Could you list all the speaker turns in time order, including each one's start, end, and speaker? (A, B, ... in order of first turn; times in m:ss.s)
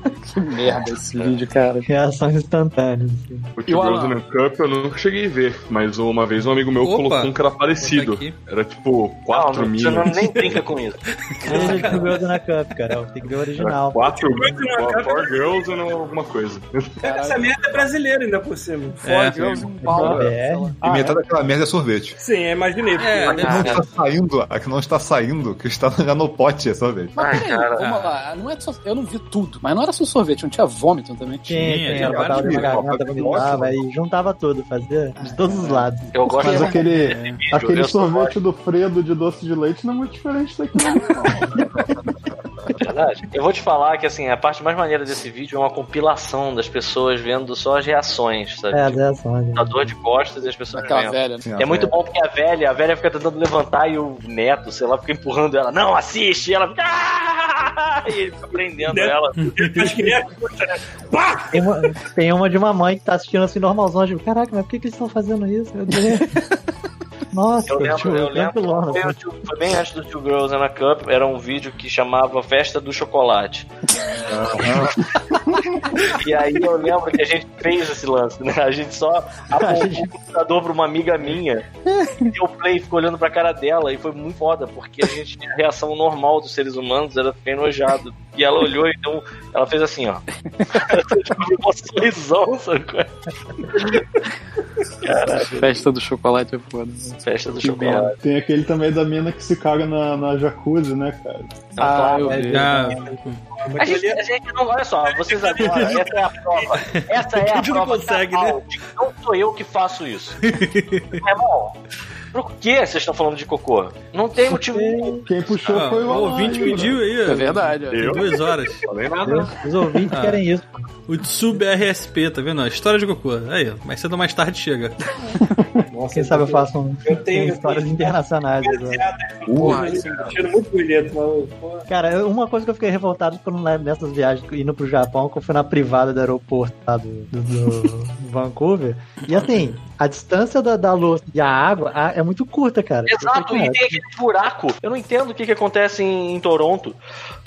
0:00.2-0:01.9 A
0:01.8-0:03.5 B
0:03.6-0:10.6 C
0:03.7-0:04.2 A
0:06.8-0:08.4 D
0:09.3-0:12.1 E
0:10.1-0:10.6 D
0:11.4-0:12.3 D
0:11.5-0:14.0 B
0:11.5-0:11.8 A
0:13.6-0:17.0 C
0:14.1-0:15.8 F
0:17.0-0:17.9 A
0:17.0-0:19.0 F
0:19.0-0:20.8 A
0:19.0-0:19.6 D
0:19.8-0:20.3 G
0:19.8-0:20.8 B
0:20.8-0:22.2 G
0:20.8-0:21.1 H
0:22.2-0:23.7 F
0:23.0-0:23.8 D
0:23.2-0:23.8 E
0:23.3-0:27.3 G
0:27.1-0:31.7 A
0:27.2-0:27.8 E
0:27.8-0:28.2 D
0:31.5-0:37.0 B
0:31.6-0:32.8 D
0:31.9-0:33.8 G
0:33.0-0:33.6 C
0:35.5-0:35.9 A
0:36.1-0:38.3 E
0:36.4-0:41.5 H
0:37.5-0:37.9 B
0:42.8-0:49.0 E
0:48.7-0:49.9 B
0:49.5-0:59.4 E
0:50.7-0:51.4 A
0:51.4-0:51.9 G
0:58.9-1:01.6 F
0:59.4-1:00.0 D
1:01.5-1:06.4 B
1:07.3-1:09.2 B
1:07.7-1:13.7 E
1:14.3-1:15.0 G
1:16.1-1:21.6 E
1:19.5-1:20.1 B
1:22.2-1:33.1 E
1:30.6-1:30.9 A
1:33.6-1:34.0 E
1:35.0-1:35.7 E
1:35.4-1:38.1 A
1:37.2-1:38.1 E
1:38.2-1:41.6 H
1:41.8-1:42.5 E
1:41.8-1:42.9 A
1:42.2-1:43.2 B
1:42.5-1:43.4 D
1:43.6-1:44.2 F
1:43.8-1:50.5 E
1:45.0-1:46.8 F
1:46.9-1:48.6 D
1:50.4-1:51.2 D
1:51.1-1:51.8 E
1:52.3-1:55.2 E
1:54.5-1:55.3 B
1:55.2-1:57.0 H
1:55.7-1:58.8 D
1:56.2-1:56.5 F
1:57.2-1:58.3 A
1:57.9-1:59.6 C
1:59.2-2:00.8 B
2:00.1-2:00.4 D
2:01.1-2:05.0 D
2:05.9-2:11.9 F
2:06.1-2:09.0 B
2:09.5-2:09.8 G
2:09.6-2:10.4 A
2:11.9-2:24.0 B
2:23.1-2:27.0 E